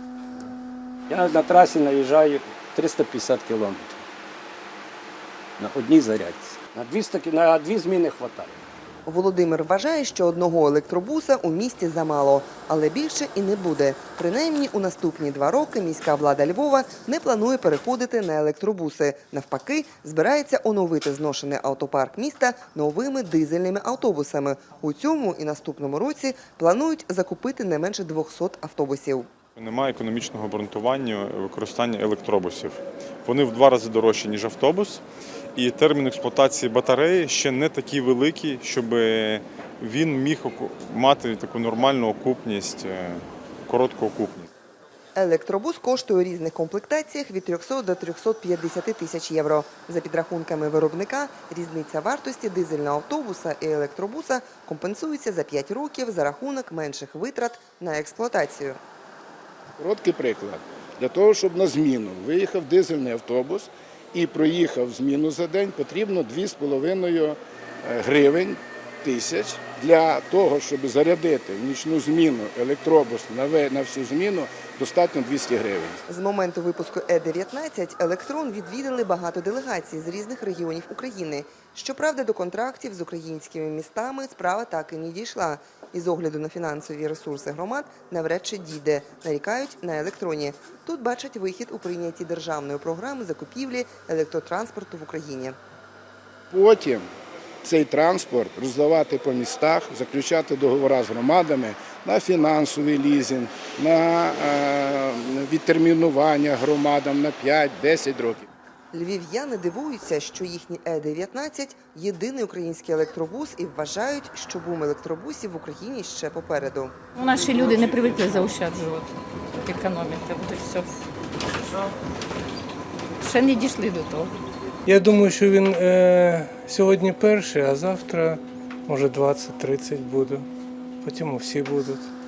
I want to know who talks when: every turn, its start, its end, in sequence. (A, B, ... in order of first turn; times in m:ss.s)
0:01.1-0:04.0 A
0:05.6-0:08.5 A
0:09.0-0:29.3 B
0:29.6-0:35.0 C
0:35.6-0:44.5 C
0:45.2-0:58.8 B
0:59.8-1:16.0 D
1:16.1-1:35.6 B
1:36.5-1:37.0 D
1:37.6-1:48.5 D
1:48.9-1:56.9 B
1:57.1-2:01.0 E
2:03.2-2:04.3 E
2:04.9-2:05.8 F
2:06.5-2:08.2 F
2:08.9-2:10.4 F
2:11.0-2:12.1 F